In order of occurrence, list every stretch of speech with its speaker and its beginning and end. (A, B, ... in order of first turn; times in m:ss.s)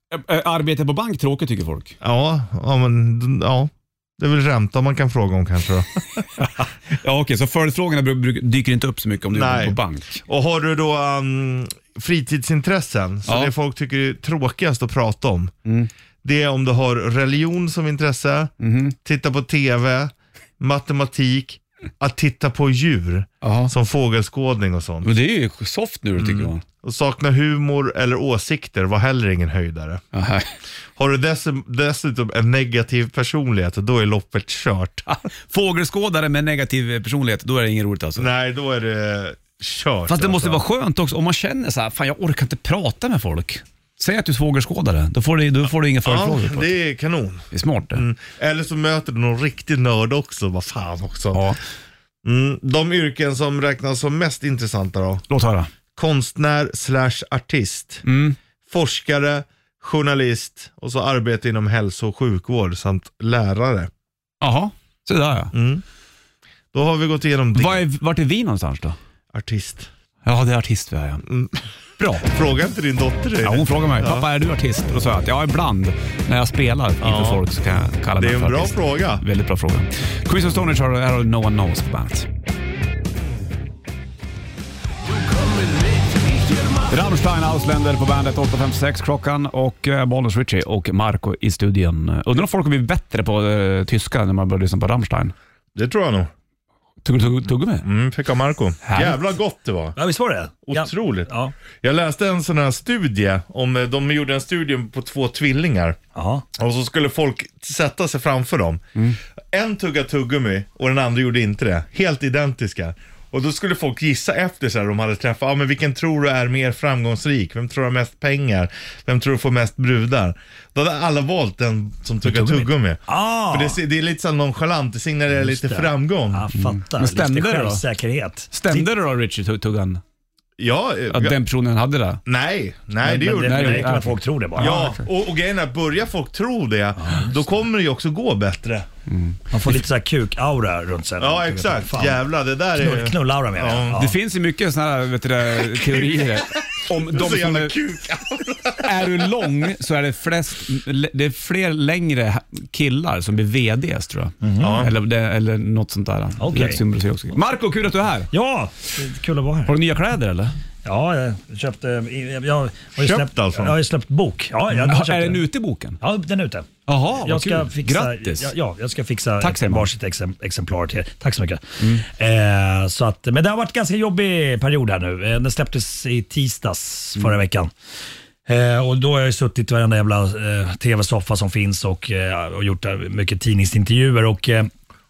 0:00.1-0:02.0 A
0:02.0-0:06.0 B
0:06.4-0:10.2 A
0:09.3-0:15.5 B
0:13.3-0:13.5 A
0:16.2-0:25.1 B
0:18.6-0:18.9 A
0:23.4-0:23.7 A
0:25.0-0:26.6 A
0:26.2-0:30.0 B
0:30.1-0:30.5 A
0:31.0-0:35.0 B
0:35.1-0:38.3 A
0:38.2-0:40.6 B
0:40.1-0:46.7 A
0:46.0-0:51.5 B
0:47.5-0:48.0 A
0:51.3-0:51.6 A
0:52.2-0:55.2 B
0:55.3-0:55.7 A
0:56.0-0:58.0 B
0:58.0-0:58.4 A
0:58.7-1:03.9 B
1:04.4-1:05.5 A
1:05.5-1:05.8 B
1:06.7-1:07.8 B
1:07.6-1:09.0 A
1:09.3-1:09.9 B
1:10.2-1:11.2 A
1:11.3-1:11.6 B
1:12.0-1:12.2 A
1:12.2-1:14.3 B
1:13.4-1:22.3 A
1:17.0-1:17.4 B
1:18.2-1:19.2 B
1:26.9-1:35.3 A
1:35.7-1:36.3 B
1:37.0-1:37.9 A
1:37.8-1:40.0 B
1:38.8-1:39.2 A
1:40.0-1:41.5 C
1:40.7-1:46.0 B
1:46.1-1:46.5 C
1:46.5-1:48.8 B
1:49.5-2:06.5 B
2:02.3-2:03.8 C
2:05.3-2:08.9 C
2:06.5-2:07.8 A
2:08.5-2:10.0 A
2:10.6-2:11.4 B
2:11.1-2:12.2 A
2:12.2-2:13.9 B
2:13.0-2:14.8 C
2:13.4-2:15.0 A
2:14.6-2:18.9 B
2:17.0-2:17.3 C
2:19.1-2:19.8 A
2:19.5-2:22.2 C
2:21.2-2:24.0 B
2:22.7-2:24.2 C
2:23.9-2:27.8 A
2:25.6-2:29.1 B
2:28.8-2:38.3 A
2:34.4-2:34.8 C
2:34.6-2:34.9 B
2:36.4-2:36.8 C
2:38.3-2:39.8 C
2:39.6-2:40.5 A
2:40.8-2:45.4 C
2:43.0-2:43.8 B
2:44.7-2:46.0 A
2:46.0-2:57.7 C
2:46.9-2:48.5 A
2:49.4-2:49.9 A
2:51.8-2:52.0 A
2:58.4-3:04.7 C